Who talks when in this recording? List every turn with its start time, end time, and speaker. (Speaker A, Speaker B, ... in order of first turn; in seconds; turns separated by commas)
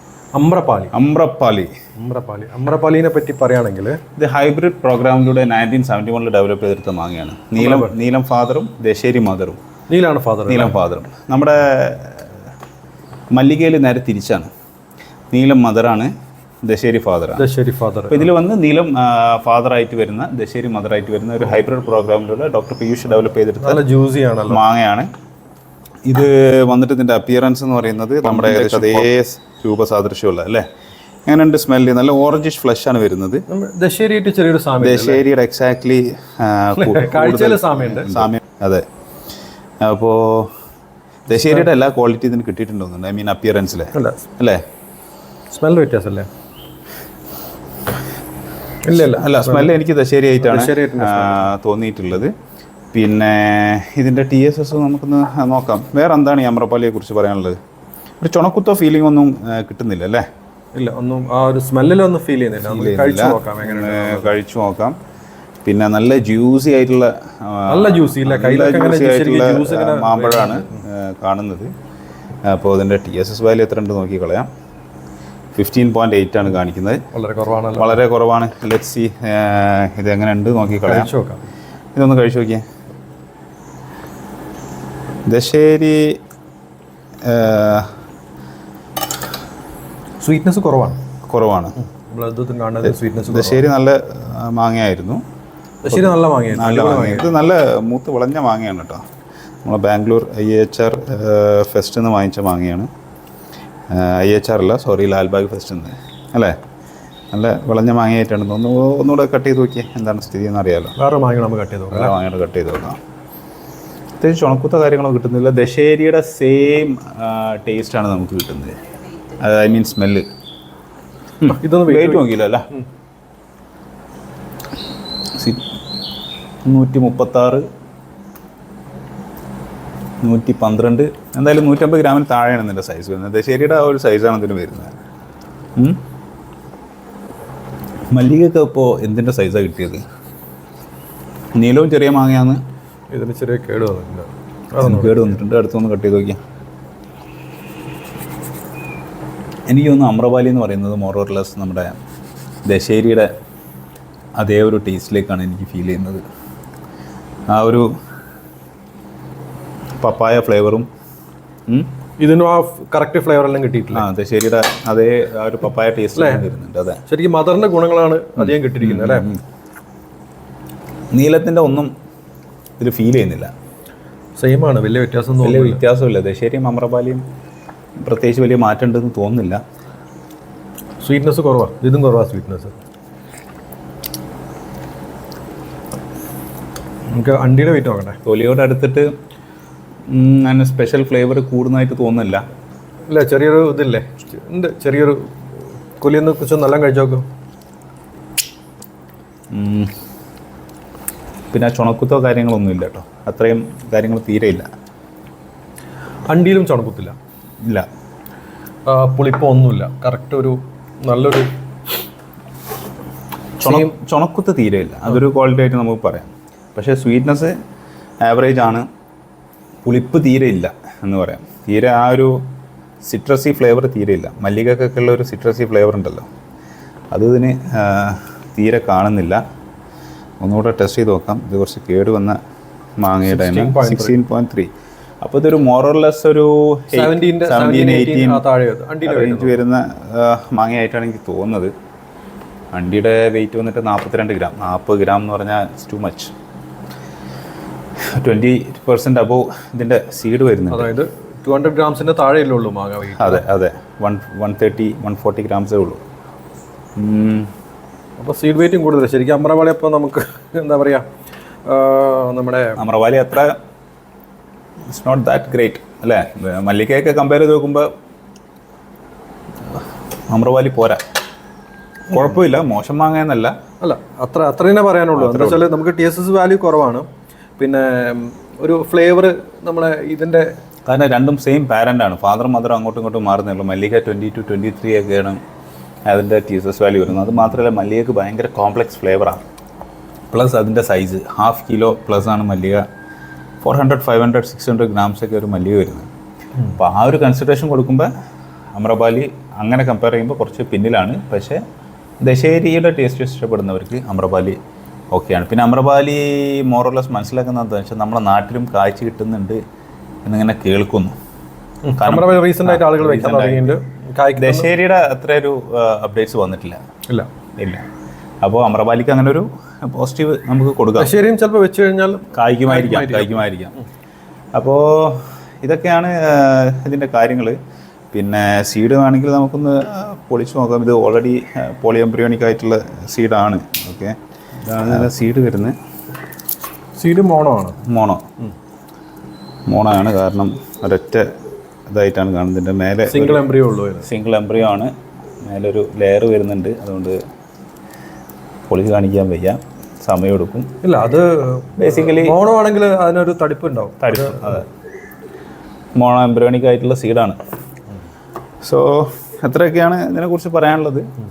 Speaker A: 0.3-0.9, Speaker B: 0.9-1.7, Speaker A: 2.0-4.0, Speaker B: 4.2-9.6, Speaker A: 7.6-8.0, Speaker A: 9.9-10.8, Speaker B: 10.5-12.3, Speaker B: 13.3-14.5, Speaker B: 15.3-16.1, Speaker B: 16.6-17.4, Speaker A: 17.4-18.2, Speaker B: 18.1-23.8, Speaker A: 23.6-24.6, Speaker B: 24.5-25.1, Speaker B: 26.1-30.7, Speaker A: 28.3-29.1, Speaker B: 31.3-33.5, Speaker A: 33.5-35.2, Speaker B: 34.8-38.8, Speaker A: 36.8-38.3, Speaker B: 39.8-40.5, Speaker B: 41.3-44.6, Speaker A: 43.9-44.2, Speaker A: 45.5-46.3, Speaker A: 48.9-49.7, Speaker B: 48.9-52.3, Speaker A: 50.4-51.5, Speaker B: 52.9-57.6, Speaker B: 58.2-60.2, Speaker A: 60.8-64.4, Speaker B: 62.6-65.0, Speaker B: 65.7-71.7, Speaker A: 67.7-70.8, Speaker B: 72.5-74.5, Speaker B: 75.5-77.0, Speaker A: 77.1-78.0, Speaker B: 77.8-81.1, Speaker A: 80.9-81.4, Speaker B: 82.0-82.7, Speaker B: 85.3-86.2, Speaker B: 87.2-87.9, Speaker A: 90.2-91.0, Speaker B: 91.3-91.8, Speaker A: 91.9-93.6, Speaker B: 93.3-95.2, Speaker A: 95.8-97.3, Speaker B: 95.9-99.0, Speaker B: 99.7-102.9, Speaker B: 103.9-106.5, Speaker B: 107.3-111.0, Speaker A: 111.0-112.2, Speaker B: 111.9-113.0, Speaker B: 114.2-118.7, Speaker B: 119.4-120.2, Speaker B: 121.4-122.7, Speaker A: 121.4-122.8, Speaker B: 125.4-125.7, Speaker B: 126.7-127.6, Speaker B: 130.2-135.0, Speaker B: 138.1-140.0, Speaker B: 141.6-142.6, Speaker A: 143.1-145.4, Speaker B: 144.8-146.4, Speaker B: 149.7-151.9, Speaker B: 152.7-153.3, Speaker B: 154.4-156.2, Speaker B: 157.5-157.9, Speaker B: 160.0-160.9, Speaker A: 162.2-164.1, Speaker B: 163.9-167.0, Speaker A: 166.2-166.5, Speaker A: 167.1-169.3, Speaker B: 168.4-169.4, Speaker B: 171.1-171.9, Speaker B: 172.8-173.5, Speaker A: 174.4-175.8, Speaker B: 175.4-177.2, Speaker B: 178.0-179.6, Speaker A: 181.0-182.8, Speaker A: 187.1-188.2, Speaker B: 188.3-189.1, Speaker B: 190.1-192.4, Speaker A: 193.1-195.4, Speaker A: 196.0-197.2, Speaker B: 199.5-199.9, Speaker B: 201.5-204.7, Speaker A: 206.3-207.2, Speaker A: 208.9-211.5, Speaker A: 213.6-213.9, Speaker B: 213.6-217.5, Speaker B: 218.2-218.8, Speaker B: 219.8-222.4, Speaker B: 223.1-226.3, Speaker B: 227.1-229.4, Speaker B: 230.4-232.4, Speaker B: 233.0-234.7, Speaker A: 233.3-234.2, Speaker B: 235.2-238.4, Speaker A: 236.9-239.6, Speaker B: 239.1-241.7, Speaker B: 242.7-246.3, Speaker B: 248.1-250.9, Speaker A: 250.7-253.4, Speaker B: 253.2-256.0, Speaker B: 257.0-257.5, Speaker A: 258.2-261.1, Speaker A: 261.7-262.8, Speaker B: 262.8-263.6, Speaker B: 264.9-267.9, Speaker B: 270.3-271.0, Speaker B: 272.1-273.6, Speaker A: 273.8-277.1, Speaker B: 275.2-275.7, Speaker A: 277.6-280.5, Speaker B: 280.9-285.4, Speaker B: 286.1-289.4, Speaker B: 290.3-292.8, Speaker B: 293.6-296.1, Speaker B: 296.8-298.1, Speaker B: 298.8-301.6, Speaker B: 302.2-304.6, Speaker B: 305.1-309.6, Speaker B: 310.2-311.1, Speaker A: 311.8-314.7, Speaker B: 312.0-313.8, Speaker B: 314.4-316.8, Speaker B: 317.6-317.9, Speaker B: 318.4-321.1, Speaker A: 321.0-323.4, Speaker B: 322.3-323.8, Speaker B: 324.5-327.6, Speaker B: 328.1-335.8, Speaker A: 337.0-337.8, Speaker B: 337.9-338.2, Speaker B: 339.7-341.2, Speaker B: 341.9-343.4, Speaker A: 343.1-344.1, Speaker B: 344.0-344.9, Speaker B: 345.4-347.2, Speaker B: 348.7-350.8, Speaker A: 350.8-354.6, Speaker B: 351.8-352.4, Speaker B: 354.0-354.7, Speaker B: 356.0-357.4, Speaker B: 358.6-361.1